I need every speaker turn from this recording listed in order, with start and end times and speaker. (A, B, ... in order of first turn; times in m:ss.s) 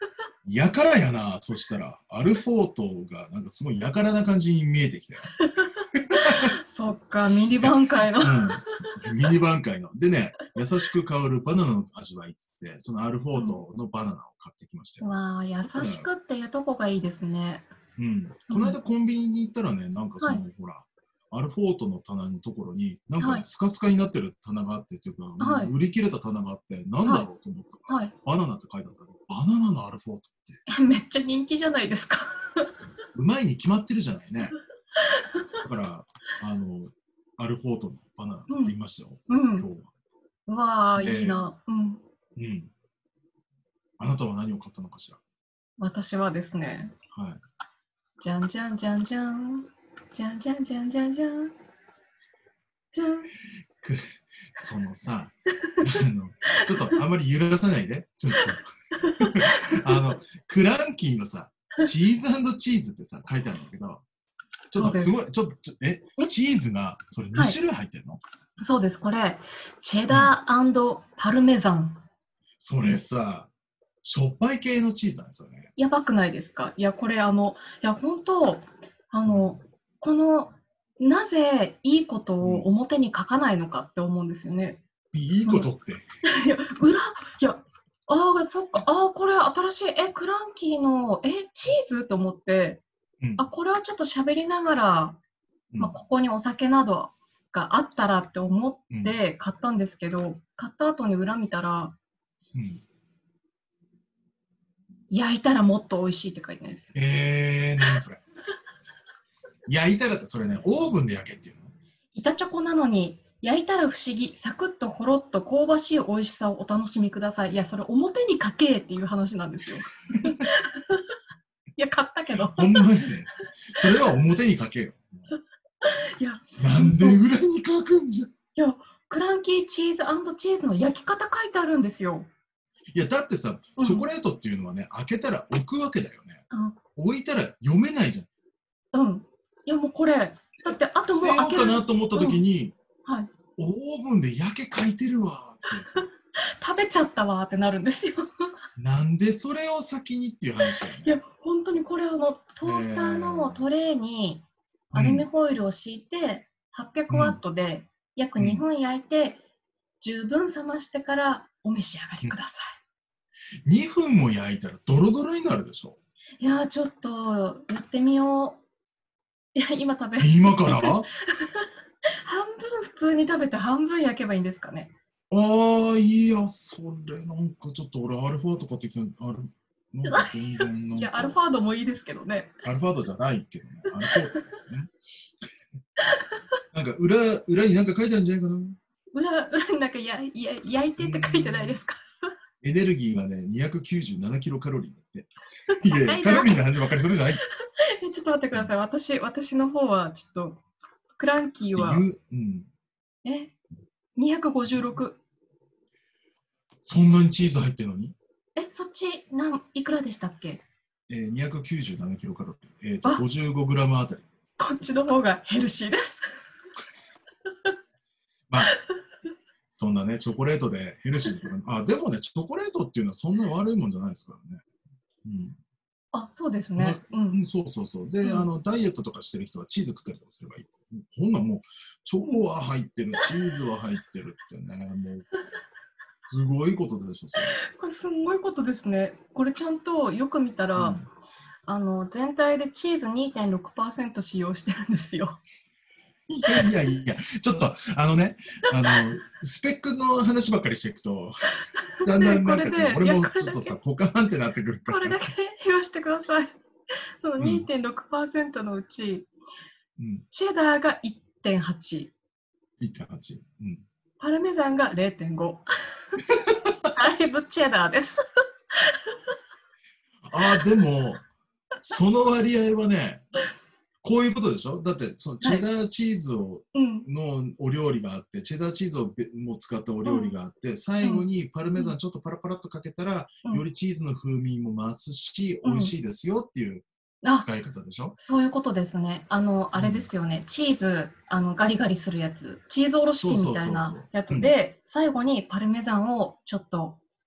0:00.4-0:05.3 A
0:05.4-0:09.1 B
0:05.9-0:06.6 A
0:07.5-0:15.1 A
0:15.0-0:17.7 B
0:15.7-0:16.1 A
0:18.0-0:30.6 A
0:18.5-0:18.8 B
0:23.2-0:23.4 B
0:25.4-0:25.8 B
0:27.9-0:28.1 B
0:30.7-0:32.7 B
0:33.1-0:34.6 A
0:35.0-0:35.6 B
0:35.6-0:39.9 A
0:38.5-0:38.8 B
0:39.3-0:39.7 B
0:40.5-0:42.0 B
0:41.0-0:41.4 A
0:42.4-0:42.7 A
0:44.0-0:45.2 A
0:45.8-0:47.0 B
0:47.1-0:47.4 A
0:48.2-0:51.5 B
0:52.9-0:53.3 B
0:53.8-1:04.0 A
0:55.6-0:57.0 B
0:59.0-1:00.0 B
1:04.7-1:08.2 A
1:04.8-1:05.1 B
1:08.6-1:12.0 B
1:10.1-1:10.4 A
1:12.6-1:13.5 A
1:14.0-1:15.7 A
1:15.8-1:24.8 B
1:19.3-1:19.6 A
1:22.4-1:22.7 A
1:25.1-1:26.0 A
1:25.4-1:25.7 B
1:26.2-1:32.8 B
1:33.2-1:33.5 A
1:33.4-1:35.2 B
1:35.7-1:36.0 A
1:35.8-1:41.9 B
1:38.9-1:39.2 A
1:42.5-1:42.8 A
1:45.1-1:47.0 B
1:46.9-1:48.2 A
1:49.7-1:51.7 A
1:52.1-2:01.1 B
2:00.1-2:00.5 A
2:01.8-2:03.0 B
2:02.4-2:05.3 A
2:03.8-2:04.2 B
2:05.8-2:07.2 B
2:06.6-2:08.3 A
2:08.6-2:12.3 B
2:12.9-2:16.4 A
2:13.8-2:14.1 B
2:16.5-2:16.8 B
2:17.0-2:18.3 A
2:18.9-2:22.4 B
2:21.1-2:22.8 A
2:23.0-2:23.3 B
2:23.6-2:26.1 A
2:25.9-2:28.3 B
2:28.8-2:31.2 A
2:30.6-2:39.4 B
2:32.6-2:33.6 A
2:34.9-2:35.3 A
2:37.1-2:37.4 A
2:38.4-2:38.6 A
2:40.0-2:42.8 B
2:43.6-2:46.0 A
2:46.4-2:48.6 B
2:49.6-2:54.9 B
2:50.2-2:51.1 A
2:55.3-3:01.4 A
3:00.0-3:02.5 B
3:02.6-3:04.9 A
3:04.0-3:04.4 B
3:06.0-3:06.4 B
3:06.7-3:08.8 A
3:09.1-3:12.3 B
3:11.0-3:11.8 A
3:12.6-3:17.4 A
3:15.7-3:16.6 B
3:17.7-3:20.6 B
3:21.2-3:22.0 B
3:21.7-3:22.7 A
3:23.2-3:23.5 B
3:24.2-3:25.2 B
3:26.8-3:28.2 A
3:28.6-3:30.6 B
3:31.1-3:34.3 A
3:34.6-3:36.3 B
3:38.5-3:38.7 A
3:38.6-3:38.9 B
3:39.7-3:44.6 A
3:45.2-3:45.6 A
3:46.1-3:47.4 B
3:46.8-3:55.3 A
3:48.2-3:48.5 B
3:56.3-3:57.6 A
3:57.6-4:01.0 B
4:00.8-4:01.1 A
4:01.7-4:05.4 B
4:06.3-4:11.4 A
4:11.7-4:13.8 B
4:12.0-4:15.2 A
4:14.9-4:16.5 B
4:17.2-4:19.3 B
4:17.4-4:17.7 A
4:20.0-4:20.3 A
4:20.3-4:22.1 B
4:22.8-4:23.8 A
4:24.2-4:26.2 B
4:26.3-4:26.9 A
4:26.9-4:28.2 B
4:28.7-4:29.2 B
4:30.3-4:31.3 A
4:31.8-4:33.2 A
4:34.0-4:46.8 A
4:36.7-4:37.1 B
4:40.0-4:40.3 B
4:45.6-4:45.9 B
4:47.4-4:48.2 A
4:48.2-4:57.0 B
4:49.8-4:50.1 A
4:53.2-4:54.6 A